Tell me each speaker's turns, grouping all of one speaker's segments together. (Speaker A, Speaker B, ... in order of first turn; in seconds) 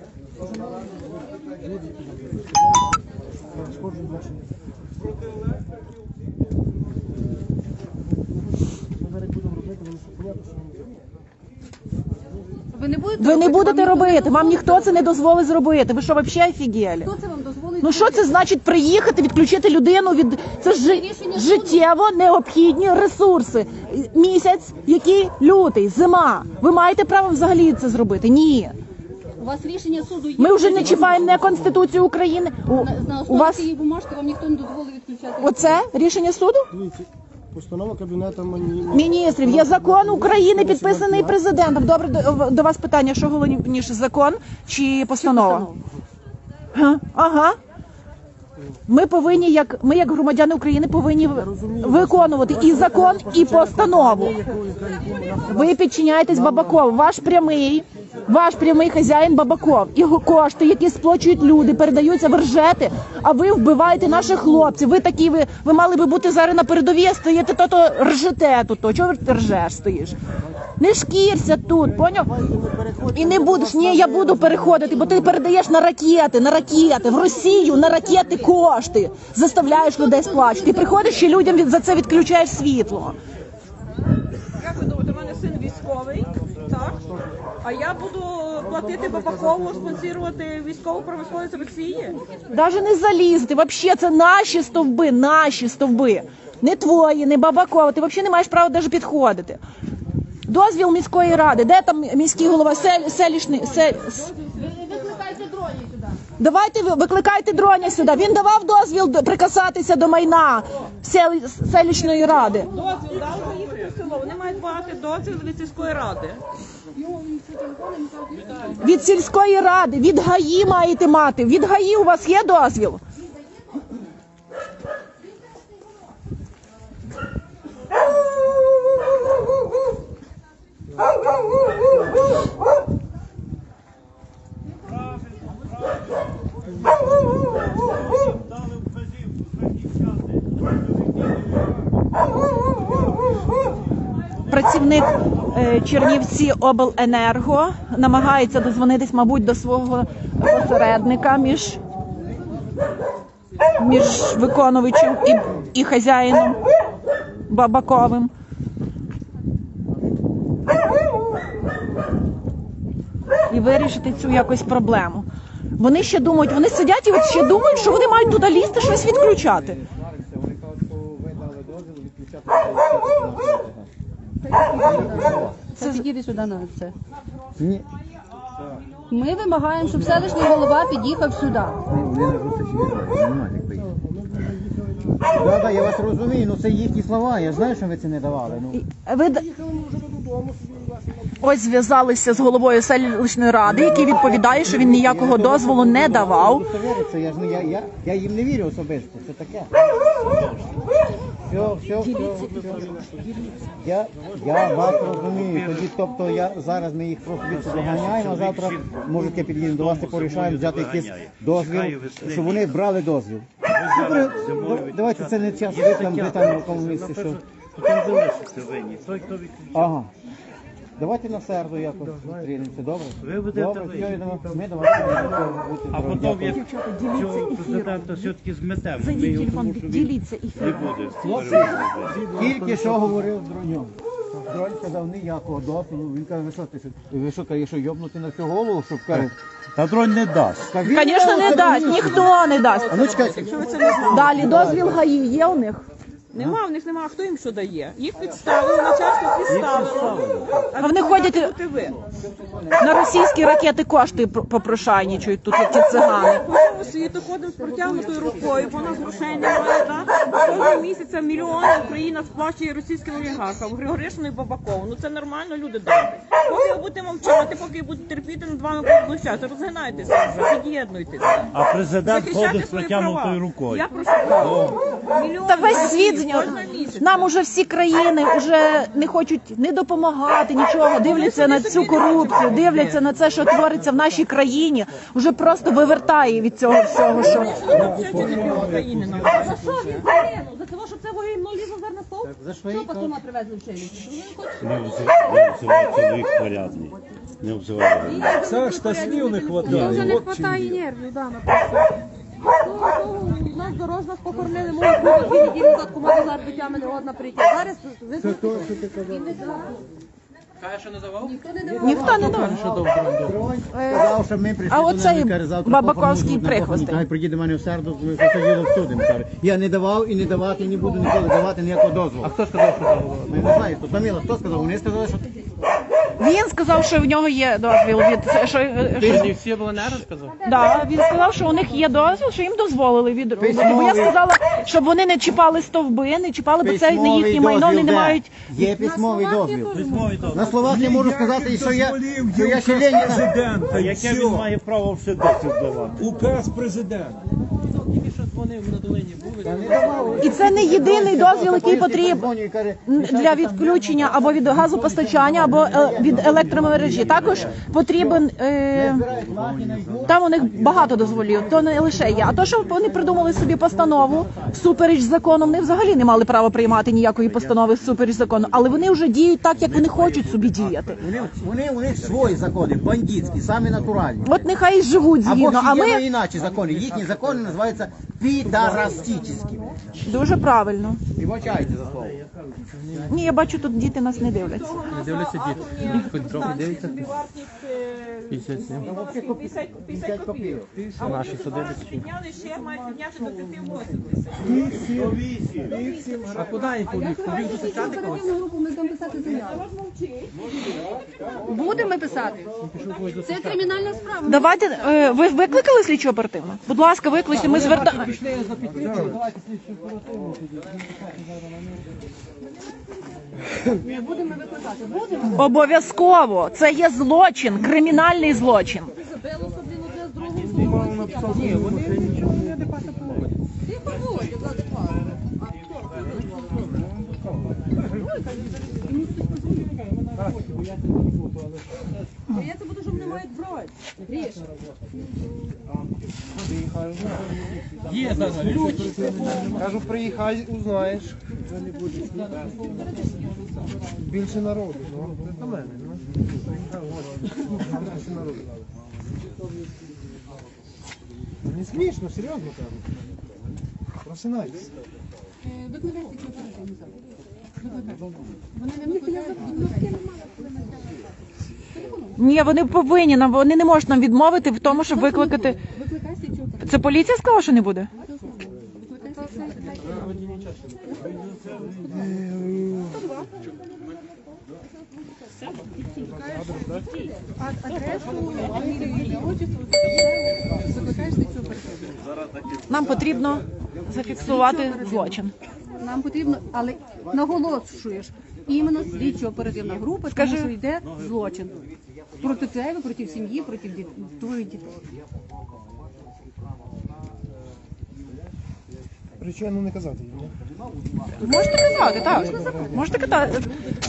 Speaker A: 1.7-2.6, 3.5-4.5, 9.0-11.0, 31.1-31.9, 36.7-41.4, 51.3-56.9, 72.2-75.5, 88.6-90.1, 183.7-185.9, 189.4-191.3, 202.0-203.4, 222.1-222.4, 224.6-225.6, 231.2-233.3, 308.2-309.4, 394.6-395.1, 408.6-409.2, 420.4-422.9, 426.5-427.6, 436.4-442.9, 444.0-448.7, 451.4-452.8, 454.0-454.7, 471.8-473.1, 475.9-476.9, 499.2-500.3, 501.6-503.1
Speaker B: 12.7-15.1, 17.0-18.3, 20.6-21.8, 29.4-31.6, 32.7-35.9, 45.1-45.8, 77.1-78.5, 79.6-81.5, 104.6-106.1, 116.9-118.8, 174.4-176.9, 179.1-181.8, 257.8-259.1, 274.1-274.5, 289.4-291.1, 292.7-295.1, 298.0-301.8, 302.5-309.8, 311.2-312.4, 330.4-331.9, 338.6-340.4, 396.9-399.6, 401.4-402.5, 403.2-405.1, 413.8-415.4, 419.1-421.3, 423.7-425.0, 425.5-426.3, 427.9-429.7, 432.3-434.4, 455.4-456.9, 457.6-457.9, 458.5-460.9, 461.7-462.2, 464.7-466.8, 468.7-470.1, 477.4-482.0, 484.2-485.2, 485.8-491.6, 492.2-494.8, 501.6-502.0
Speaker C: 13.2-17.1, 17.8-28.8, 30.4-33.7, 35.4-36.7, 38.9-45.7, 46.7-47.6, 48.9-54.4, 55.5-70.2, 70.8-72.3, 73.1-83.2, 92.5-99.6, 100.5-104.3, 106.4-112.7, 118.8-123.0, 144.5-151.8, 153.8-156.6, 157.5-158.3, 163.5-165.3, 165.8-169.8, 175.8-176.1, 188.7-189.5, 191.4-196.7, 226.4-228.3, 229.0-231.0, 240.8-243.1, 244.1-245.9, 250.8-251.5, 252.8-256.4, 275.5-287.7, 311.8-312.6, 313.7-317.1, 326.2-329.3, 330.4-338.3, 350.2-352.3, 352.9-359.0, 360.1-371.0, 374.2-376.1, 380.0-381.0, 383.1-384.8, 404.2-408.1, 415.3-418.9, 462.2-465.6, 466.6-467.9, 482.7-485.3, 490.1-490.6, 501.2-503.5
Speaker D: 84.6-87.0, 87.6-92.2, 112.6-116.4, 242.8-244.7, 246.3-252.0, 255.8-271.5, 272.0-277.3, 281.0-283.0, 287.1-290.1, 384.4-394.6, 395.8-396.2, 399.4-400.3
Speaker E: 169.3-173.9, 174.8-175.6, 177.6-177.9, 181.9-183.9, 185.3-188.8, 193.6-199.7, 201.5-202.7, 203.8-217.4, 219.7-220.1, 221.0-226.6, 231.2-233.9, 234.5-239.3, 240.7-245.1, 249.5-250.2, 252.4-252.8, 289.3-289.7, 292.2-293.2, 311.8-325.3, 329.0-329.3, 333.4-334.2, 336.6-339.7, 340.3-343.3, 349.4-364.6, 371.0-374.5, 375.2-379.8, 381.1-382.2, 388.8-390.7
Speaker F: 200.1-200.8, 204.4-205.9, 207.4-212.7, 213.7-219.9, 223.2-224.4, 225.9-232.3, 239.1-240.8, 271.5-274.8, 294.6-298.5, 339.7-340.7, 343.6-346.1, 357.1-357.5, 359.1-360.1, 369.6-371.1, 394.9-395.8
Speaker G: 287.6-289.5, 298.3-300.8, 340.6-344.5, 346.0-347.2
Speaker H: 310.6-313.5, 322.4-323.6, 329.0-330.4, 347.7-350.2, 384.9-387.1, 388.3-388.9, 390.9-392.1, 396.3-398.3, 402.6-403.6, 407.3-410.4, 421.2-423.4, 429.9-431.6, 437.9-439.6, 470.0-470.5